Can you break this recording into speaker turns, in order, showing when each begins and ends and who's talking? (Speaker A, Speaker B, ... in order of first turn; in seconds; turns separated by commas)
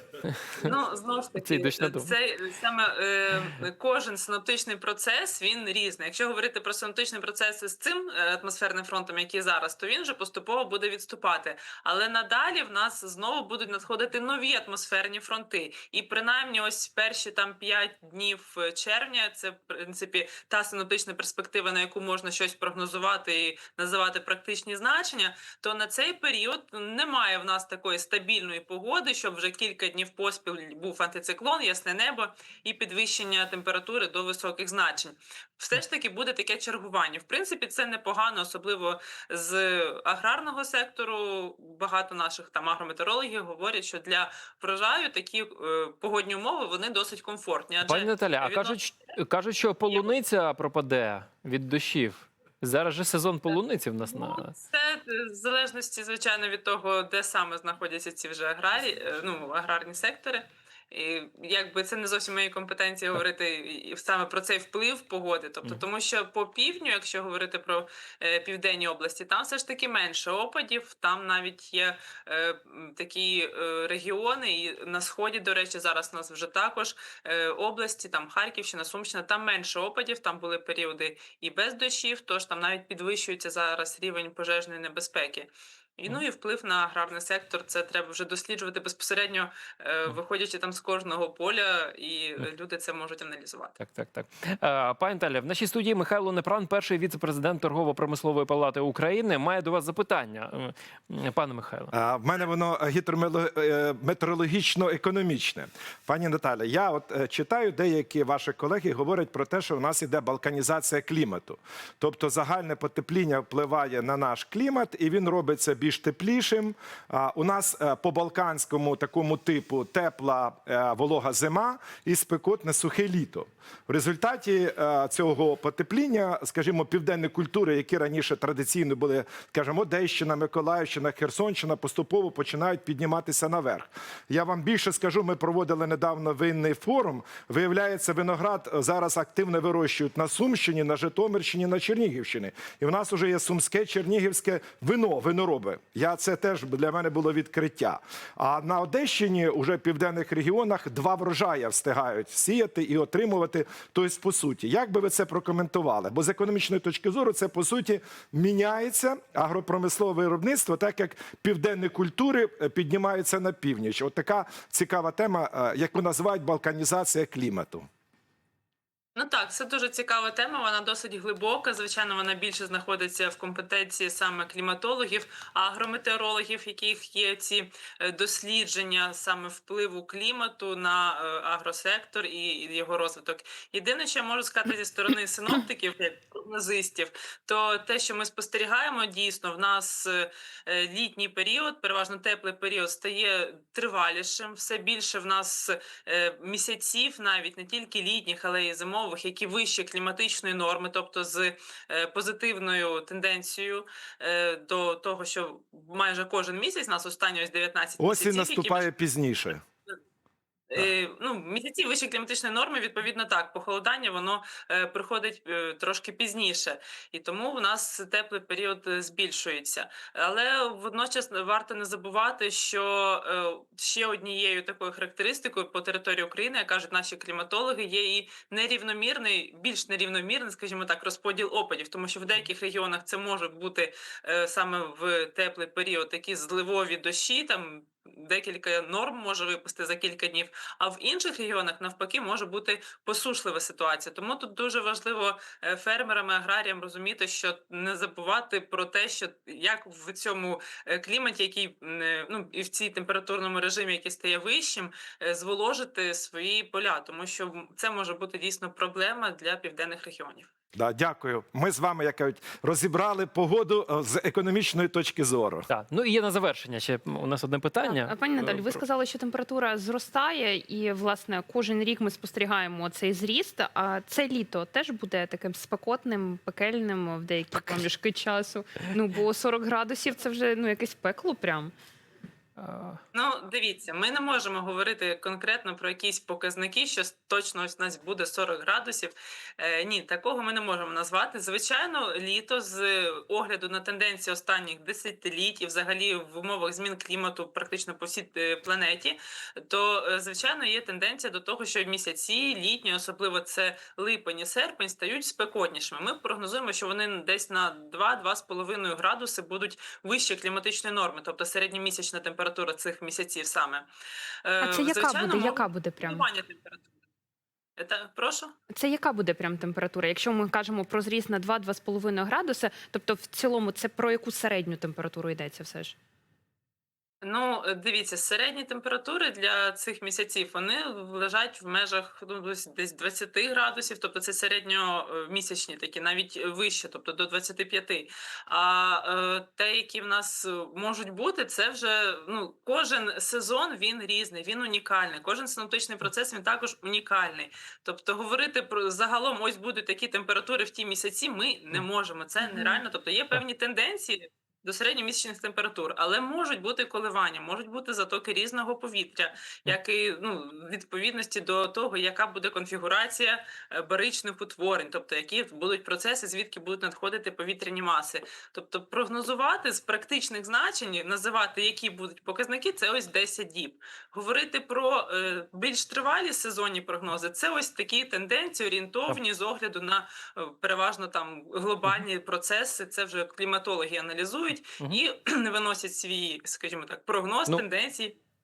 Speaker A: 0.2-0.7, Speaker B: 0.6-48.8, Speaker A: 1.4-2.1, Speaker A: 47.8-54.5, Speaker B: 49.9-50.1, Speaker B: 53.5-93.8, Speaker A: 93.8-101.9, Speaker C: 101.9-167.8, Speaker B: 169.2-208.9, Speaker C: 208.0-209.6, Speaker B: 210.7-260.5, Speaker C: 260.7-265.7, Speaker A: 265.7-268.1, Speaker D: 267.8-281.7, Speaker A: 282.6-283.0, Speaker B: 283.1-313.9, Speaker B: 314.4-316.9, Speaker D: 314.6-316.2, Speaker B: 317.8-318.5, Speaker D: 318.7-325.9, Speaker B: 327.2-388.2